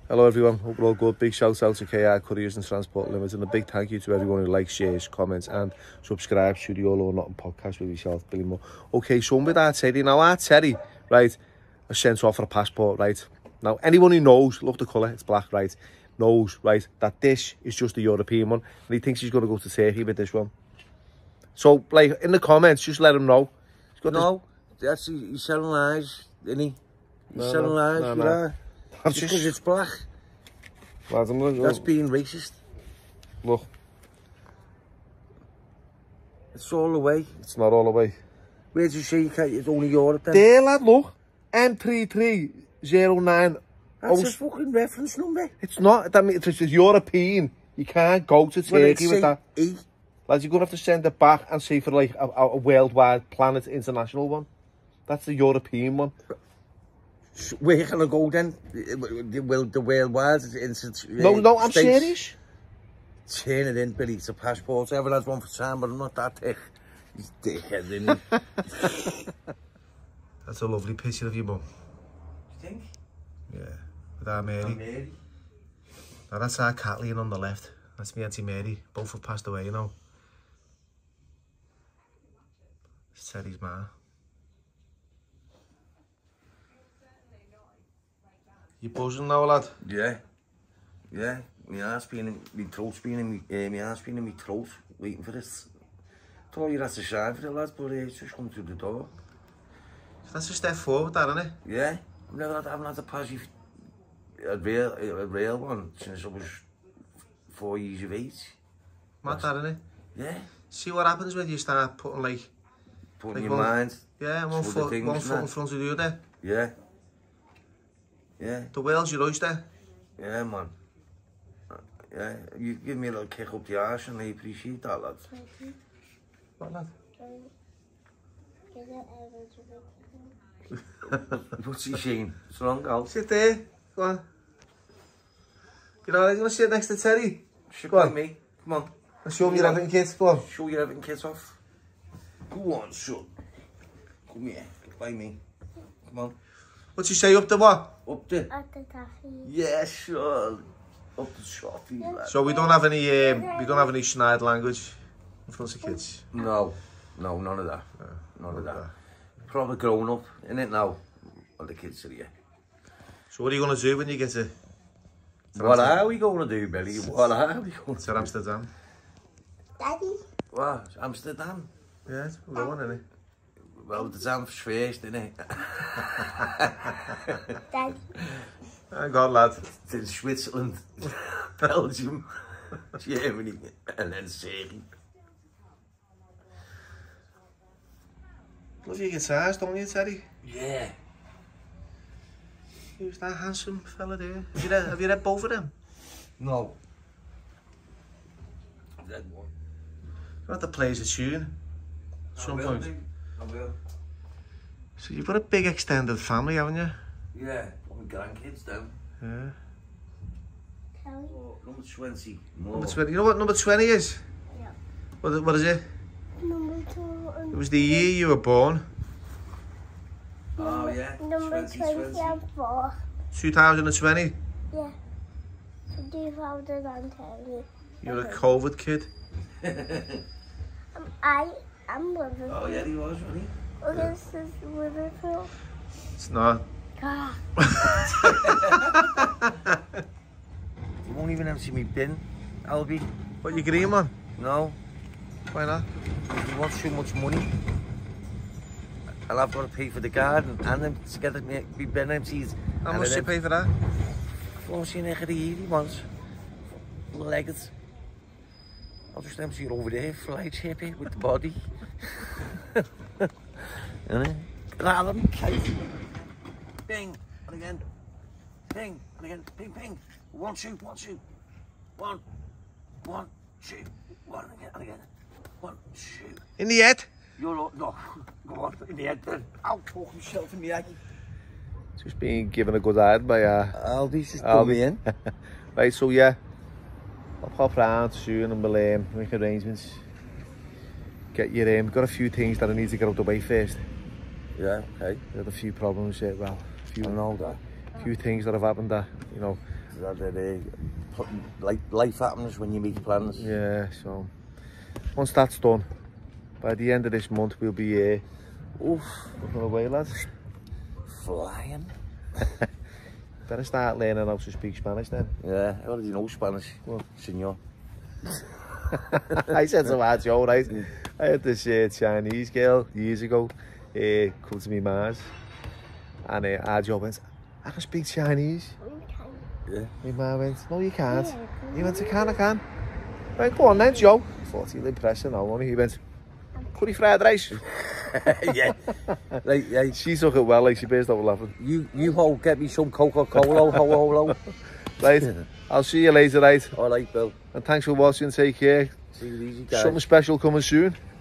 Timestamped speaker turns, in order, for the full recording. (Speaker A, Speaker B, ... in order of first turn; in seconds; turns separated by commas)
Speaker A: 0.1-20.5, Speaker A: 21.6-24.3, Speaker B: 24.1-26.8, Speaker B: 27.3-28.6, Speaker A: 27.3-28.4, Speaker A: 28.9-29.5, Speaker B: 29.1-30.1, Speaker A: 31.1-31.9, Speaker B: 31.6-32.6, Speaker A: 33.4-33.7, Speaker B: 36.5-37.3, Speaker A: 37.4-38.2, Speaker B: 38.7-40.5, Speaker A: 40.3-44.4, Speaker B: 44.0-45.5, Speaker A: 45.6-49.4, Speaker B: 48.7-49.9, Speaker A: 50.3-54.5, Speaker A: 55.1-56.1, Speaker B: 57.4-62.2, Speaker A: 61.2-62.4, Speaker B: 63.3-69.2, Speaker A: 70.5-71.7, Speaker B: 72.5-72.9, Speaker A: 73.5-74.8, Speaker B: 74.6-75.2, Speaker A: 76.3-79.9, Speaker A: 83.2-83.9, Speaker A: 88.8-89.8, Speaker B: 89.8-90.2, Speaker B: 91.1-95.7, Speaker B: 96.5-99.1, Speaker A: 100.2-101.6, Speaker B: 101.6-103.5, Speaker B: 104.4-106.7, Speaker B: 107.5-108.6, Speaker A: 109.2-109.8, Speaker B: 109.2-109.5, Speaker B: 110.2-110.5, Speaker A: 110.7-112.5, Speaker B: 113.2-115.5, Speaker A: 113.3-116.2, Speaker B: 116.4-116.8, Speaker B: 118.4-118.7, Speaker A: 118.7-119.7, Speaker B: 120.2-120.8, Speaker B: 121.7-125.3, Speaker C: 125.3-125.8, Speaker A: 126.6-126.9, Speaker C: 127.2-127.5, Speaker C: 128.7-130.4, Speaker B: 131.1-133.1, Speaker A: 133.0-134.2, Speaker A: 136.1-138.2, Speaker B: 137.7-139.8, Speaker A: 139.2-140.5, Speaker B: 140.4-141.6, Speaker B: 142.5-143.3, Speaker B: 144.3-145.4, Speaker B: 146.0-146.4, Speaker A: 147.0-147.9, Speaker B: 148.1-148.5, Speaker C: 148.5-149.5, Speaker B: 149.4-152.4, Speaker C: 152.0-153.9, Speaker A: 152.3-156.3, Speaker B: 156.3-158.9, Speaker A: 158.0-158.9, Speaker B: 159.5-161.0, Speaker B: 161.6-162.3, Speaker A: 163.3-164.5, Speaker A: 165.5-166.0, Speaker B: 165.6-168.3, Speaker A: 168.0-168.7, Speaker C: 169.8-170.2, Speaker B: 170.5-171.7, Speaker A: 172.1-173.1, Speaker B: 173.7-177.6, Speaker C: 177.7-178.0, Speaker B: 178.2-178.4, Speaker A: 178.9-179.7, Speaker B: 179.7-184.9, Speaker A: 188.8-190.3, Speaker B: 190.4-191.0, Speaker A: 193.0-195.7, Speaker B: 196.4-196.8, Speaker B: 199.0-199.5, Speaker A: 200.5-201.5, Speaker A: 202.3-202.9, Speaker B: 202.3-203.8, Speaker A: 205.0-207.0, Speaker B: 207.3-209.0, Speaker A: 209.2-209.6, Speaker C: 211.0-211.4, Speaker B: 211.2-213.0, Speaker A: 212.7-214.2, Speaker A: 215.2-215.8, Speaker C: 216.4-218.1, Speaker A: 217.5-218.9, Speaker B: 220.6-222.4, Speaker C: 220.6-223.0, Speaker A: 223.3-224.4, Speaker C: 224.7-225.0, Speaker C: 225.9-228.4, Speaker A: 228.0-229.1, Speaker B: 229.6-230.2, Speaker C: 230.9-232.9, Speaker B: 232.5-233.6, Speaker C: 233.8-235.5, Speaker A: 236.2-236.7, Speaker C: 237.0-237.4, Speaker A: 237.6-239.8, Speaker B: 238.2-238.9, Speaker B: 241.0-243.1, Speaker A: 243.4-244.2, Speaker B: 244.3-244.8, Speaker A: 245.5-245.9, Speaker B: 246.3-247.5, Speaker B: 249.3-253.3, Speaker A: 252.8-253.7, Speaker B: 254.5-256.1, Speaker B: 257.1-257.7, Speaker B: 259.1-266.0, Speaker B: 266.9-267.8, Speaker B: 268.7-271.2, Speaker B: 272.0-272.2, Speaker B: 273.0-275.1, Speaker B: 275.6-276.4, Speaker A: 276.6-277.1, Speaker B: 277.4-281.0, Speaker A: 282.0-283.8, Speaker B: 283.7-285.0, Speaker A: 284.4-286.4, Speaker A: 287.4-290.1, Speaker A: 291.3-293.9, Speaker B: 294.6-295.2, Speaker A: 295.3-297.2, Speaker B: 297.0-297.6, Speaker A: 297.9-299.6, Speaker B: 299.9-303.5, Speaker A: 303.4-304.3, Speaker A: 305.1-305.9, Speaker A: 306.6-308.2, Speaker B: 308.8-309.4, Speaker A: 309.4-310.2, Speaker B: 311.1-311.9, Speaker A: 313.5-315.4, Speaker B: 315.4-317.6, Speaker B: 318.3-319.5, Speaker A: 319.1-325.3, Speaker A: 326.2-328.8, Speaker C: 328.8-329.5, Speaker B: 329.7-329.9, Speaker A: 330.0-332.6, Speaker C: 331.1-332.4, Speaker A: 333.4-336.0, Speaker A: 336.8-337.6, Speaker B: 337.5-340.0, Speaker A: 339.9-341.6, Speaker B: 341.6-344.4, Speaker A: 343.4-344.4, Speaker A: 345.0-346.8, Speaker B: 346.7-347.4, Speaker A: 347.5-348.9, Speaker B: 349.1-350.0, Speaker A: 349.7-351.0